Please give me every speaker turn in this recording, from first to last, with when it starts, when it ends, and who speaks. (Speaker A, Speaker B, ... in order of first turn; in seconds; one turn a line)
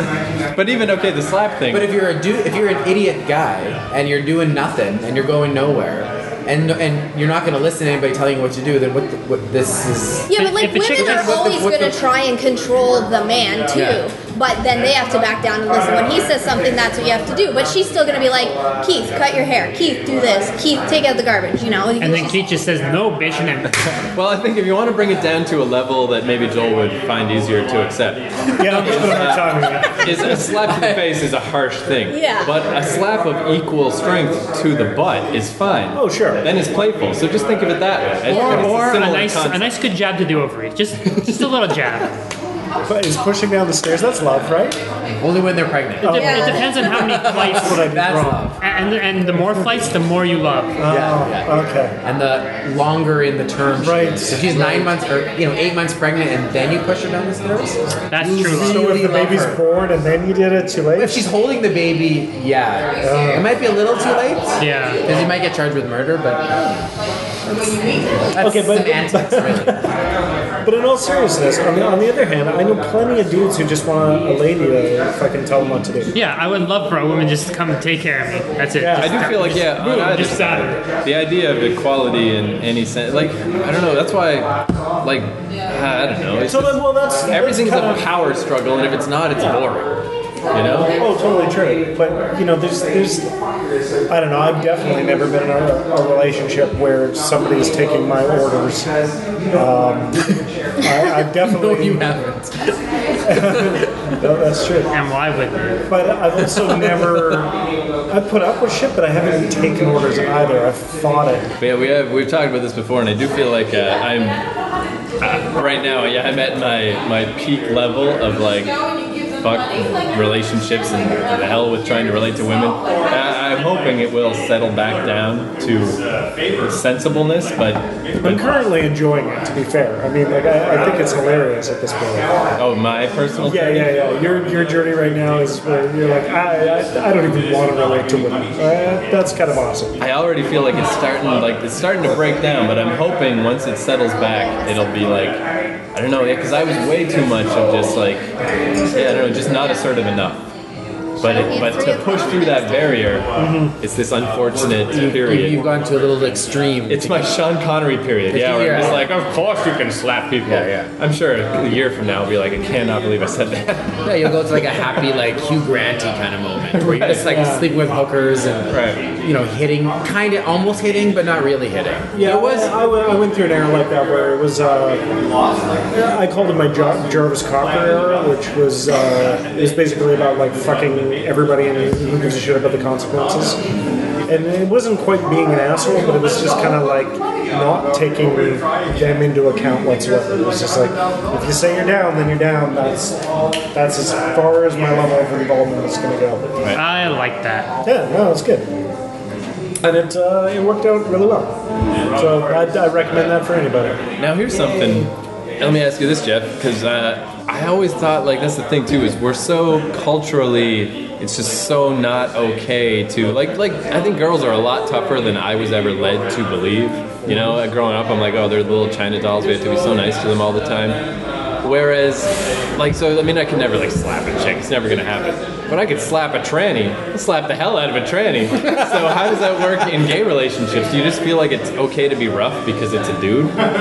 Speaker A: 0.5-2.0
Speaker B: 1.7-10.3
Speaker C: 10.3-22.5
Speaker D: 10.3-11.4
Speaker B: 10.9-12.0
Speaker B: 13.7-14.0
Speaker D: 22.0-23.9
Speaker A: 24.1-39.7
Speaker E: 28.6-30.2
Speaker B: 28.9-29.2
Speaker B: 30.1-31.0
Speaker C: 32.1-32.5
Speaker E: 35.9-36.5
Speaker D: 38.3-42.1
Speaker E: 38.3-38.9
Speaker A: 41.1-41.5
Speaker E: 42.9-44.8
Speaker B: 45.2-48.6
Speaker E: 46.0-48.4
Speaker D: 46.1-48.1
Speaker C: 46.1-46.7
Speaker D: 48.6-50.8
Speaker E: 49.2-49.8
Speaker E: 50.8-52.0
Speaker B: 50.9-51.5
Speaker B: 52.0-59.6
Speaker E: 53.8-54.9
Speaker D: 58.1-59.0
Speaker E: 58.2-61.2
Speaker B: 61.0-66.8
Speaker E: 63.0-63.5
Speaker D: 64.6-65.0
Speaker B: 67.4-69.8
Speaker E: 68.4-69.9
Speaker E: 70.6-76.1
Speaker D: 76.1-80.8
Speaker E: 78.8-79.8
Speaker A: 79.0-90.0
Speaker E: 86.4-88.1
Speaker A: 90.5-91.0
Speaker E: 90.9-93.3
Speaker E: 94.1-98.9
Speaker E: 99.5-102.1
Speaker B: 100.9-103.8
Speaker E: 103.2-104.9
Speaker D: 104.9-105.8
Speaker E: 105.9-107.5
Speaker E: 108.1-111.5
Speaker A: 111.6-114.4
Speaker A: 115.2-118.8
Speaker A: 119.4-126.0
Speaker A: 126.6-128.5
Speaker E: 128.2-132.3
Speaker A: 132.6-133.9
Speaker E: 133.4-140.0
Speaker A: 140.0-148.3
Speaker C: 144.2-144.9
Speaker A: 148.9-150.5
Speaker A: 151.2-155.7
Speaker C: 151.2-153.0
Speaker E: 153.3-153.8
Speaker B: 155.1-157.3
Speaker A: 156.9-165.0
Speaker B: 158.3-159.1
Speaker B: 160.4-160.9
Speaker B: 164.0-172.7
Speaker A: 166.7-167.5
Speaker E: 167.3-167.7
Speaker A: 168.7-169.0
Speaker E: 172.1-175.0
Speaker E: 175.9-183.6
Speaker E: 184.3-193.2
Speaker E: 193.7-196.5
Speaker D: 196.7-197.7
Speaker E: 197.8-198.7
Speaker E: 199.8-201.6
Speaker E: 202.2-204.0
Speaker A: 204.2-221.0
Speaker E: 217.2-217.6
Speaker A: 221.6-233.6